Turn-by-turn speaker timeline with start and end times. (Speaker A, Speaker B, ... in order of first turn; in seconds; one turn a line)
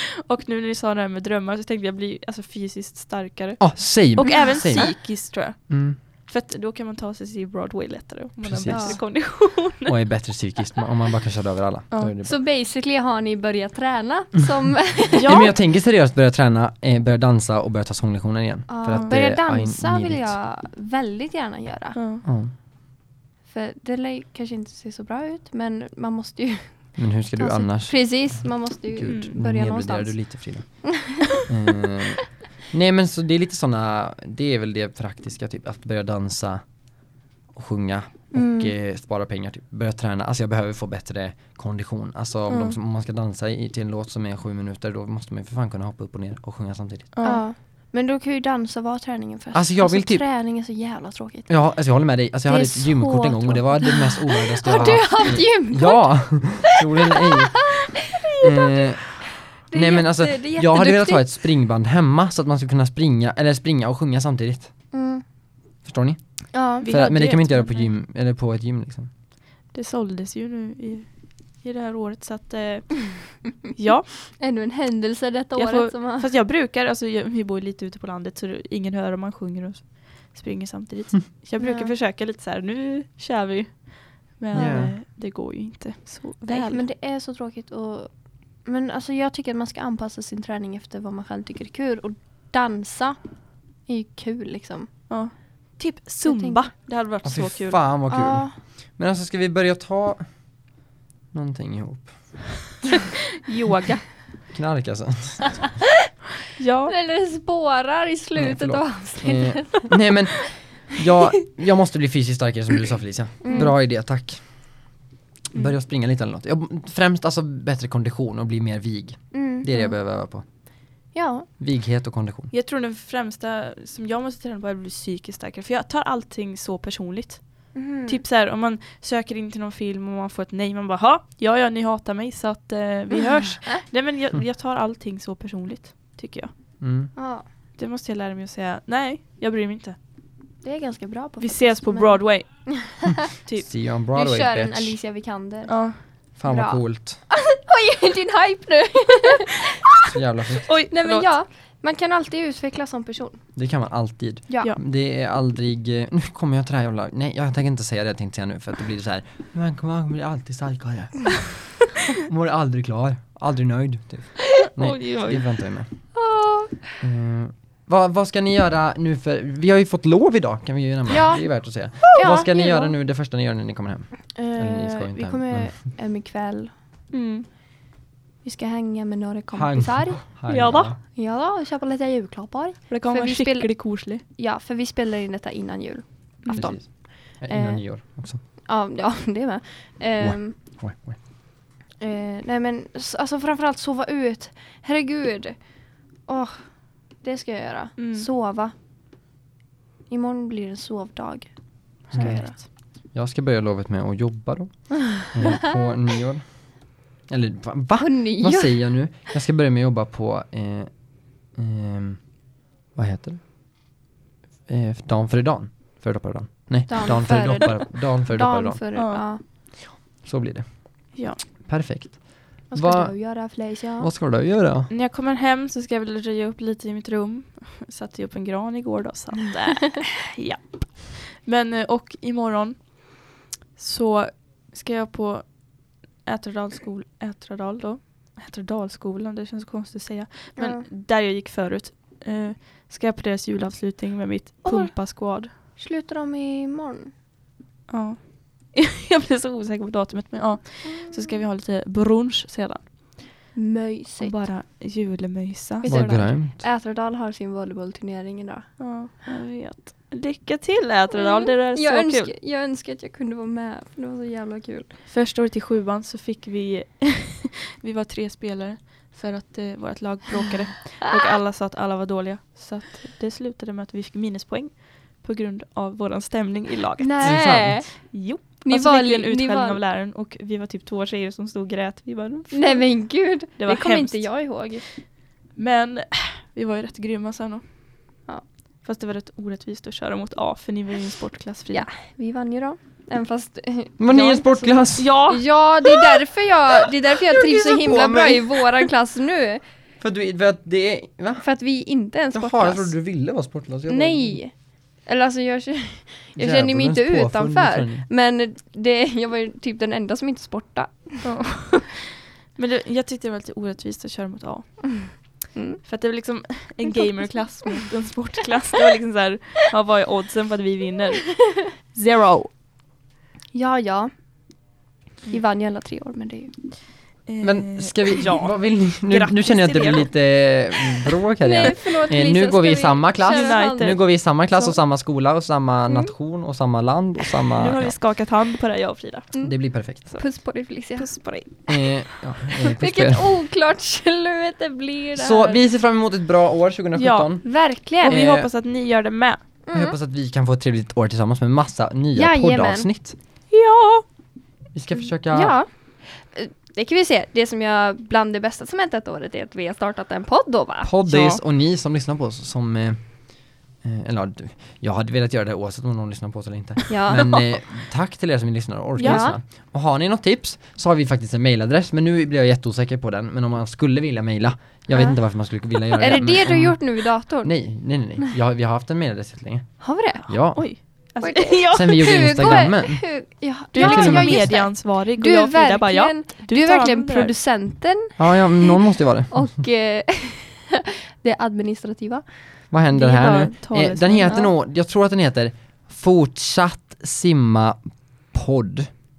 Speaker A: 0.3-9.9
Speaker B: 3.6-6.0
Speaker C: 4.2-4.8
Speaker B: 8.4-12.3
Speaker C: 8.7-9.0
Speaker C: 12.2-15.4
Speaker A: 15.1-15.5
Speaker B: 15.2-20.3
Speaker C: 18.7-22.0
Speaker A: 21.9-22.2
Speaker B: 22.2-22.5
Speaker C: 23.4-31.4
Speaker B: 27.0-36.7
Speaker A: 29.1-29.3
Speaker B: 37.5-47.1
Speaker C: 38.3-38.7
Speaker A: 42.5-42.8
Speaker A: 47.1-47.4
Speaker C: 47.2-51.5
Speaker B: 49.5-50.2
Speaker B: 51.5-64.7
Speaker C: 52.4-57.6
Speaker C: 58.3-58.8
Speaker C: 59.7-61.3
Speaker C: 64.9-65.2
Speaker B: 65.8-69.1
Speaker C: 66.5-66.9
Speaker A: 66.8-67.9
Speaker A: 69.7-74.3
Speaker C: 74.3-76.3
Speaker A: 75.5-86.8
Speaker C: 81.6-81.9
Speaker B: 84.5-85.0
Speaker C: 86.5-93.2
Speaker C: 93.8-94.9
Speaker A: 95.1-97.9
Speaker C: 96.2-96.7
Speaker B: 97.2-100.3
Speaker C: 98.1-98.5
Speaker B: 101.3-102.4
Speaker A: 103.5-104.1
Speaker B: 104.5-105.8
Speaker A: 106.6-106.9
Speaker C: 106.9-109.9
Speaker B: 108.4-114.8
Speaker C: 113.4-113.7
Speaker A: 113.5-113.7
Speaker B: 115.5-120.4
Speaker C: 119.3-120.0
Speaker C: 121.1-121.5
Speaker B: 121.6-122.5
Speaker A: 122.5-136.5
Speaker C: 127.7-128.2
Speaker B: 136.8-137.1
Speaker C: 137.2-137.4
Speaker A: 137.8-140.0
Speaker C: 140.6-143.2
Speaker A: 141.4-143.7
Speaker B: 143.6-144.9
Speaker C: 144.1-149.7
Speaker A: 145.7-146.0
Speaker B: 146.3-147.2
Speaker B: 150.1-150.7
Speaker A: 150.7-151.3
Speaker C: 150.9-153.4
Speaker B: 153.6-165.9
Speaker C: 154.5-154.7
Speaker A: 164.6-165.5
Speaker C: 166.1-167.0
Speaker B: 167.0-175.8
Speaker C: 171.1-172.9
Speaker C: 174.3-176.7
Speaker A: 177.1-177.5
Speaker C: 178.4-180.4
Speaker B: 179.5-181.0
Speaker A: 180.5-180.9
Speaker C: 181.0-190.6
Speaker A: 182.9-184.2
Speaker B: 186.5-188.4
Speaker B: 190.2-191.2
Speaker C: 192.0-198.7
Speaker A: 198.0-198.3
Speaker C: 200.1-202.6
Speaker A: 202.1-202.6
Speaker B: 202.1-210.9
Speaker C: 205.4-205.7
Speaker C: 208.0-208.9
Speaker B: 211.5-212.3
Speaker B: 212.9-213.4
Speaker B: 214.7-218.9
Speaker C: 216.9-219.4
Speaker A: 218.9-219.2
Speaker B: 220.2-224.9
Speaker A: 221.1-221.4
Speaker C: 222.7-224.1
Speaker A: 224.9-245.5
Speaker C: 240.6-240.8
Speaker C: 244.6-247.1
Speaker A: 247.9-252.9
Speaker C: 250.8-251.4
Speaker C: 253.5-254.4
Speaker A: 254.2-256.3
Speaker C: 255.8-259.0
Speaker B: 255.9-256.6
Speaker A: 258.8-262.3
Speaker C: 261.1-264.9
Speaker A: 265.1-284.2
Speaker C: 271.1-271.3
Speaker C: 277.0-279.8
Speaker B: 277.2-277.8
Speaker C: 282.5-284.8
Speaker A: 285.6-288.2
Speaker A: 288.8-291.9
Speaker C: 291.7-299.6
Speaker B: 294.0-295.1
Speaker A: 294.9-295.4
Speaker B: 297.7-298.4
Speaker B: 300.0-301.4
Speaker C: 301.4-302.9
Speaker B: 302.3-304.4
Speaker C: 303.9-311.6
Speaker B: 306.4-308.1
Speaker A: 311.2-322.5
Speaker C: 314.9-315.8
Speaker C: 316.9-317.9
Speaker C: 323.5-324.1
Speaker C: 325.3-326.5
Speaker A: 327.2-331.1
Speaker B: 327.4-337.9
Speaker C: 331.4-333.9
Speaker A: 333.3-334.8
Speaker A: 337.6-339.3
Speaker C: 339.3-341.2
Speaker B: 339.4-340.1
Speaker A: 340.9-342.3
Speaker B: 341.7-343.2
Speaker C: 342.8-345.6
Speaker B: 345.1-347.5
Speaker A: 346.9-349.4
Speaker C: 347.4-348.2
Speaker B: 348.0-348.5
Speaker C: 349.6-350.0
Speaker B: 349.7-353.1
Speaker C: 352.1-352.9
Speaker A: 353.5-354.0
Speaker B: 354.7-355.5
Speaker C: 355.3-360.9
Speaker B: 360.8-380.8
Speaker A: 361.1-361.4
Speaker C: 366.9-367.3
Speaker A: 367.1-367.4
Speaker A: 369.0-369.2
Speaker C: 369.0-369.4
Speaker C: 374.9-375.2
Speaker C: 375.7-378.3
Speaker A: 375.8-376.2
Speaker C: 379.8-388.8
Speaker A: 380.5-382.6
Speaker B: 381.7-383.2
Speaker A: 383.7-387.3
Speaker B: 383.7-384.5
Speaker B: 388.2-389.5
Speaker C: 389.3-392.2
Speaker B: 392.7-398.9
Speaker A: 392.9-394.4
Speaker C: 394.2-394.5